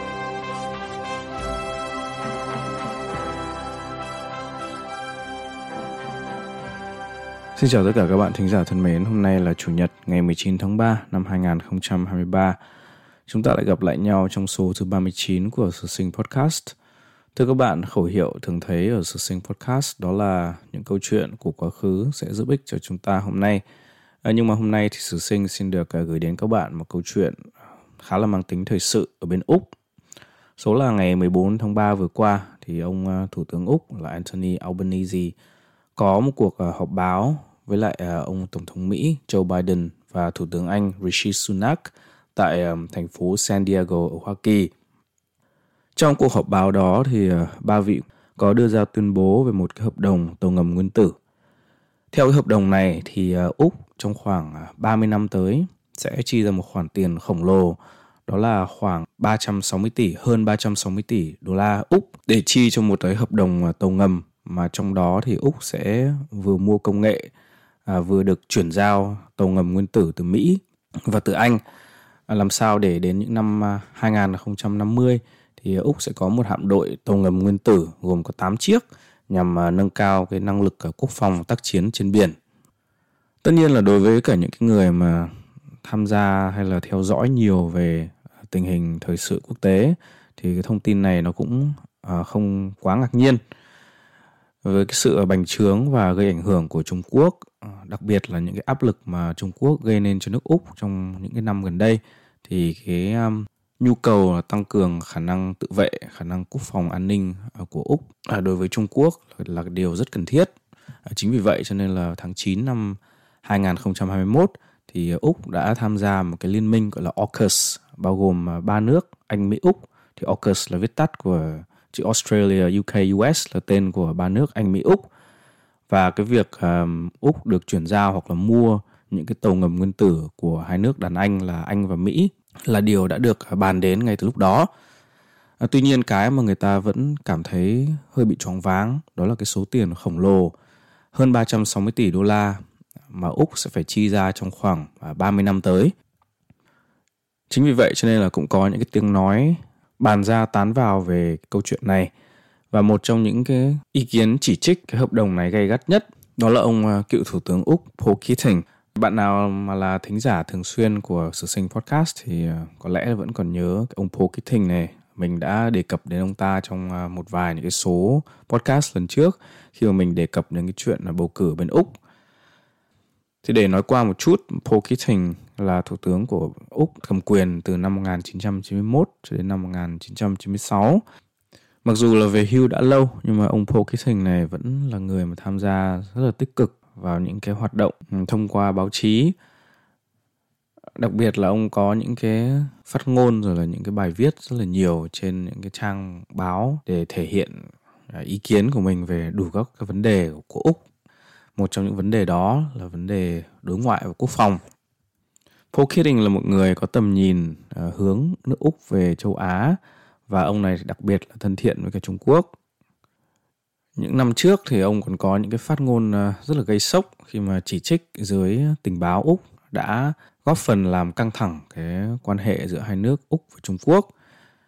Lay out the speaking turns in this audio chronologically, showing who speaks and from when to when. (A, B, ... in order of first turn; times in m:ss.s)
0:07.6-0:12.6 A
0:13.3-0:16.7 A
0:17.3-0:23.6 A
0:24.2-0:27.4 A
0:28.0-0:29.7 A
0:30.6-0:35.3 A
0:36.0-0:44.7 A
0:46.0-0:51.2 A
0:52.1-1:07.3 A
1:07.8-1:11.6 A
1:12.3-1:22.4 A
1:23.4-1:33.4 A
1:34.6-1:50.5 A
1:51.0-2:05.1 A
2:05.9-2:14.7 A
2:15.6-2:20.5 A
2:21.1-2:25.9 A
2:27.5-2:32.1 A
2:32.7-2:52.0 A
2:53.4-3:01.0 A
3:01.8-3:09.3 A
3:11.0-3:20.8 A
3:21.6-3:24.6 A
3:25.7-3:32.5 A
3:34.0-3:44.1 A